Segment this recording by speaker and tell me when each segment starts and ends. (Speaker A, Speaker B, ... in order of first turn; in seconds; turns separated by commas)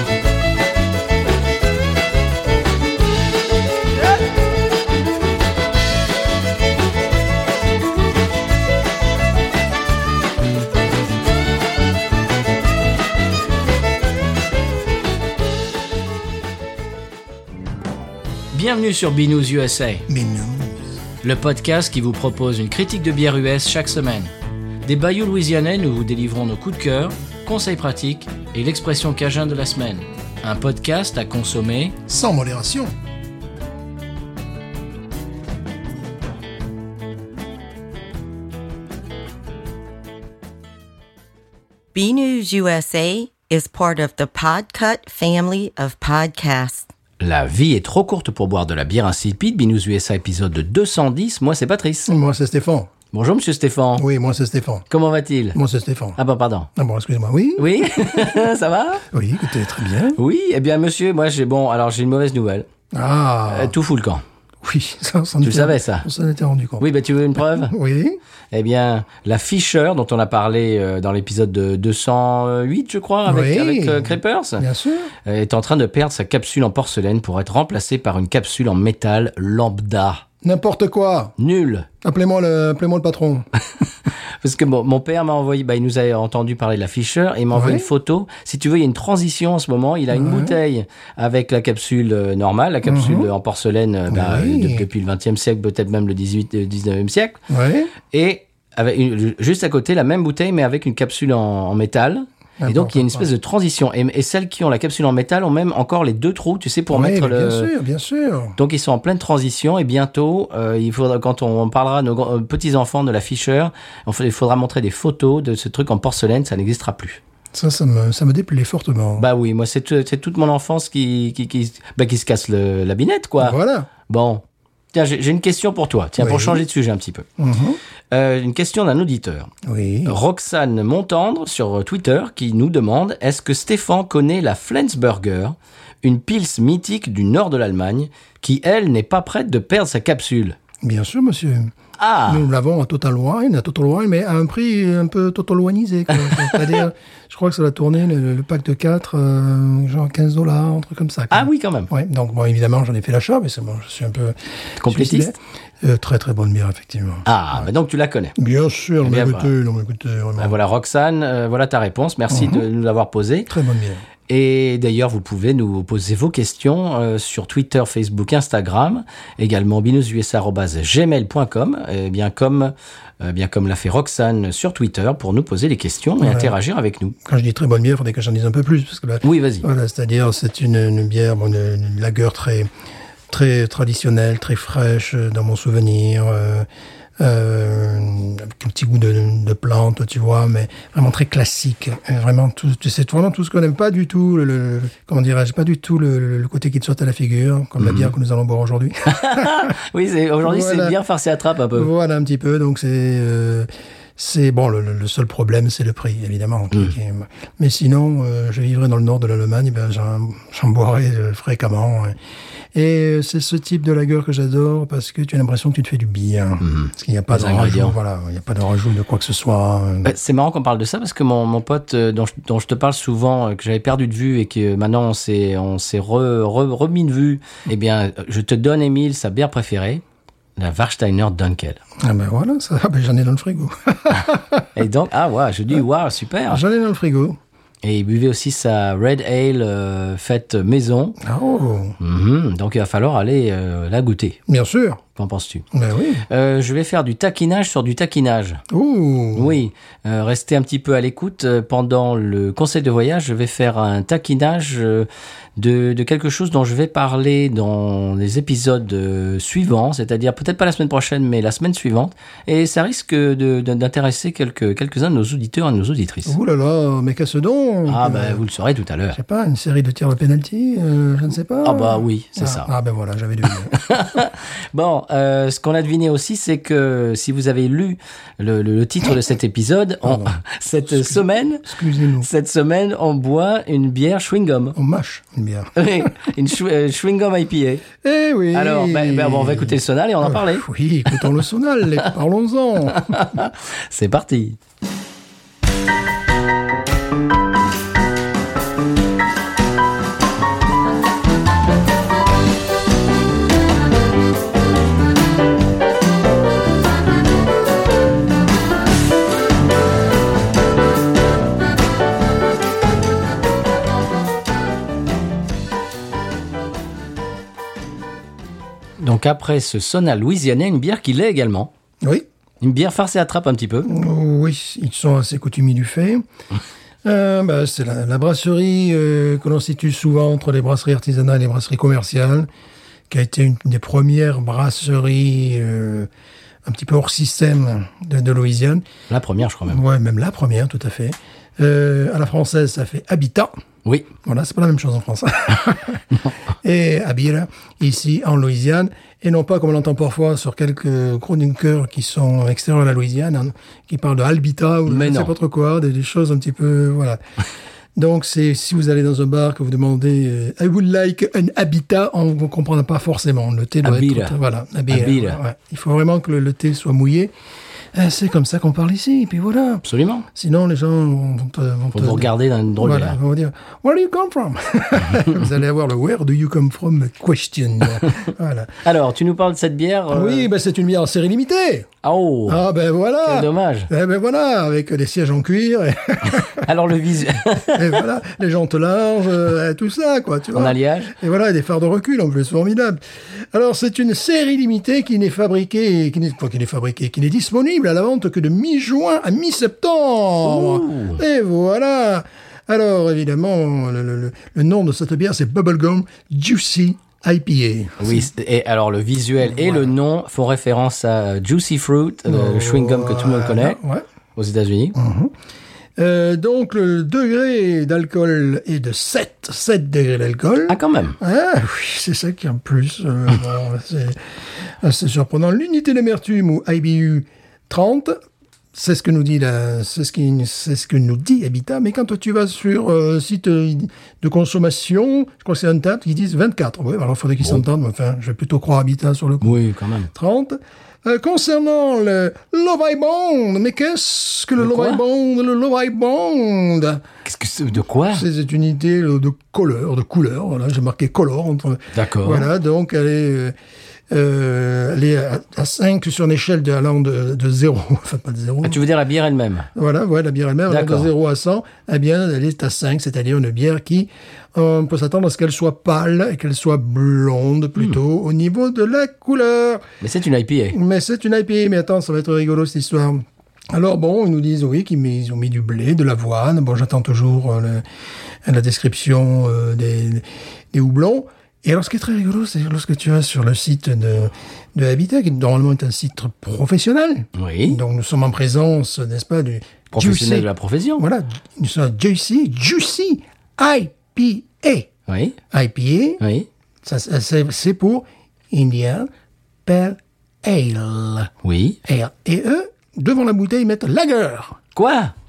Speaker A: 18.5-20.1, Speaker B: 20.1-20.8, Speaker A: 21.2-24.3, Speaker A: 24.9-32.0, Speaker B: 32.1-32.9, Speaker C: 41.9-46.9, Speaker A: 47.2-52.1, Speaker B: 52.1-52.9, Speaker A: 53.1-54.1, Speaker B: 54.0-54.9, Speaker A: 54.9-55.6, Speaker B: 55.5-56.2, Speaker A: 56.2-56.7, Speaker B: 56.8-58.4, Speaker A: 57.6-59.0, Speaker B: 59.1-60.2, Speaker A: 60.1-62.7, Speaker B: 62.9-63.8, Speaker A: 63.5-64.2, Speaker B: 64.6-66.9, Speaker A: 65.4-66.1, Speaker A: 66.8-67.7, Speaker B: 67.5-68.2, Speaker A: 68.5-74.7, Speaker B: 73.3-75.1, Speaker A: 75.2-80.2, Speaker B: 80.4-81.4, Speaker A: 81.4-81.9, Speaker B: 82.0-83.5, Speaker A: 84.4-97.4, Speaker B: 87.5-87.9, Speaker B: 90.1-90.6, Speaker B: 92.8-93.3, Speaker B: 94.1-94.8, Speaker B: 97.5-97.9, Speaker A: 98.1-107.7, Speaker B: 102.6-103.3, Speaker B: 106.9-108.6, Speaker A: 108.6-117.2, Speaker B: 117.5-119.3, Speaker A: 119.2-127.3, Speaker B: 123.4-123.9, Speaker B: 126.2-126.6, Speaker B: 127.4-127.8, Speaker A: 128.1-129.5, Speaker B: 129.6-130.2, Speaker A: 130.1-140.6, Speaker B: 140.8-141.7, Speaker A: 142.0-142.4, Speaker B: 142.3-157.3, Speaker A: 146.3-146.6, Speaker A: 151.3-151.9, Speaker A: 154.8-155.3, Speaker A: 157.3-158.3, Speaker B: 158.4-160.6, Speaker A: 159.0-159.5, Speaker A: 160.4-163.5, Speaker B: 162.3-162.7, Speaker B: 163.5-164.0, Speaker A: 164.3-177.2, Speaker B: 176.2-176.5, Speaker B: 177.3-182.7, Speaker A: 179.2-179.7, Speaker B: 183.3-186.7, Speaker B: 187.2-199.7, Speaker A: 197.8-198.1, Speaker A: 199.1-201.9, Speaker B: 200.4-201.0, Speaker B: 201.7-212.2, Speaker B: 212.7-220.1, Speaker A: 216.6-218.0, Speaker A: 220.0-230.0, Speaker A: 230.6-231.8, Speaker B: 232.0-234.7, Speaker A: 234.8-236.6, Speaker B: 236.5-237.4, Speaker A: 237.8-241.2, Speaker B: 241.2-242.0, Speaker A: 242.0-244.4, Speaker B: 244.5-245.0, Speaker A: 245.2-245.7, Speaker B: 245.7-246.2, Speaker A: 246.3-248.6, Speaker B: 248.7-249.5, Speaker A: 249.3-266.3, Speaker B: 266.3-268.4, Speaker A: 267.9-269.2, Speaker B: 269.1-273.8, Speaker A: 271.6-272.7, Speaker A: 273.8-281.7, Speaker B: 280.1-282.3, Speaker A: 282.2-284.8, Speaker B: 284.8-285.7, Speaker A: 285.8-287.9, Speaker B: 288.0-293.2, Speaker A: 288.5-290.6, Speaker A: 292.9-294.6, Speaker A: 319.0-321.7, Speaker A: 322.6-323.9, Speaker B: 323.9-326.2, Speaker B: 327.0-332.5, Speaker B: 333.1-336.1, Speaker B: 336.6-338.8, Speaker A: 339.1-339.8, Speaker B: 339.7-343.5, Speaker B: 344.2-346.1, Speaker B: 346.6-357.2, Speaker A: 354.9-355.4, Speaker B: 358.0-367.3, Speaker A: 363.8-364.4, Speaker A: 364.9-365.4, Speaker B: 367.9-378.8, Speaker A: 369.9-370.3, Speaker A: 371.9-373.2, Speaker A: 378.8-380.5, Speaker B: 380.1-381.9, Speaker A: 382.0-382.6, Speaker B: 382.5-386.7, Speaker A: 383.2-383.9, Speaker A: 386.6-388.0, Speaker B: 387.7-408.3, Speaker A: 390.5-391.1, Speaker A: 400.4-401.2, Speaker A: 408.0-413.8, Speaker B: 409.5-409.9, Speaker B: 412.3-414.1, Speaker A: 414.4-415.0, Speaker B: 414.9-415.3, Speaker B: 416.0-424.2, Speaker A: 420.7-421.2, Speaker B: 424.8-428.2, Speaker B: 428.7-439.6, Speaker A: 439.4-440.1, Speaker B: 440.1-447.1, Speaker A: 444.6-445.0, Speaker A: 447.2-448.3, Speaker B: 448.1-453.5, Speaker A: 451.9-452.5, Speaker B: 454.1-458.8, Speaker A: 458.6-459.7, Speaker B: 459.8-469.9, Speaker A: 460.7-461.1, Speaker A: 470.0-470.8, Speaker B: 470.7-477.9, Speaker B: 478.4-494.9, Speaker A: 487.4-487.8, Speaker A: 489.9-491.0, Speaker A: 495.1-495.4, Speaker B: 495.5-496.2, Speaker A: 496.2-496.5, Speaker B: 496.8-499.1, Speaker B: 499.6-501.3, Speaker A: 501.4-501.8, Speaker B: 501.9-504.6, Speaker A: 504.8-505.1